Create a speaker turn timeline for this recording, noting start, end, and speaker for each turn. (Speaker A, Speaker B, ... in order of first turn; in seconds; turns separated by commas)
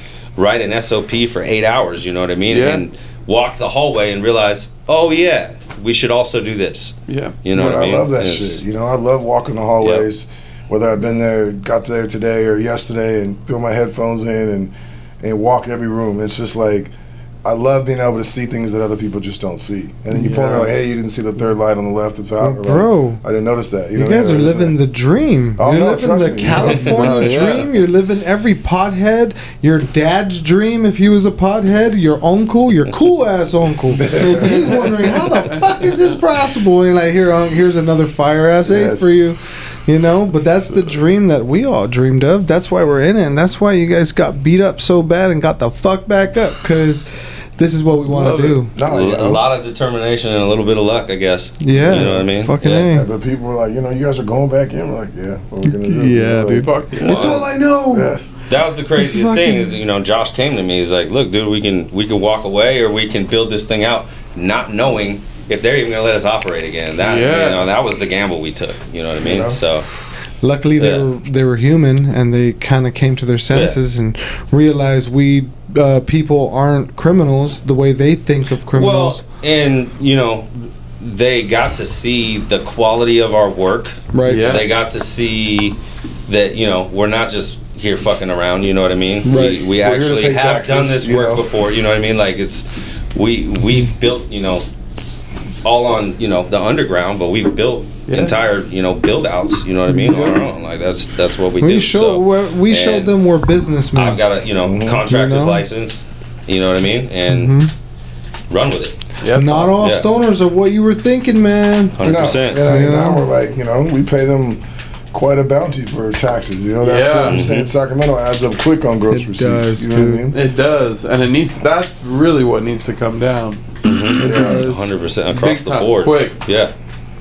Speaker A: 0.4-8.6, Speaker B: 2.5-2.8, Speaker B: 7.1-7.3, Speaker C: 7.5-16.9, Speaker A: 9.8-10.1, Speaker C: 17.4-24.8, Speaker B: 20.1-20.7, Speaker D: 22.4-23.2, Speaker D: 23.9-48.7, Speaker C: 25.6-27.6, Speaker B: 26.9-27.7, Speaker C: 34.0-35.2, Speaker C: 38.6-39.1, Speaker B: 48.1-48.6, Speaker C: 48.7-49.5, Speaker A: 48.8-52.9, Speaker D: 51.6-53.1, Speaker C: 51.8-52.2, Speaker C: 52.9-58.3, Speaker D: 55.6-58.1, Speaker B: 56.6-57.4, Speaker A: 57.0-57.4, Speaker A: 58.5-69.9, Speaker D: 59.0-59.7, Speaker B: 67.0-67.7, Speaker C: 69.2-69.6, Speaker D: 70.4-79.2, Speaker A: 70.8-71.0, Speaker A: 73.5-73.8, Speaker A: 78.7-94.6, Speaker D: 84.1-84.5, Speaker B: 84.2-84.7, Speaker C: 89.2-91.5, Speaker D: 89.2-89.6, Speaker A: 95.6-103.1, Speaker B: 98.1-98.4, Speaker D: 99.9-100.4, Speaker D: 101.6-104.2, Speaker A: 103.9-107.6, Speaker C: 104.6-105.0, Speaker D: 105.0-105.6, Speaker D: 107.3-107.7, Speaker A: 108.5-109.0, Speaker B: 109.2-109.7, Speaker D: 109.3-112.0, Speaker A: 109.6-110.0, Speaker A: 112.0-112.7, Speaker C: 112.0-120.4, Speaker D: 112.6-113.2, Speaker B: 116.8-117.4, Speaker A: 117.2-117.7, Speaker D: 119.1-120.3, Speaker B: 120.3-123.6, Speaker A: 123.8-126.7, Speaker B: 124.2-124.5, Speaker D: 124.2-124.9, Speaker C: 124.2-124.7, Speaker B: 125.3-126.4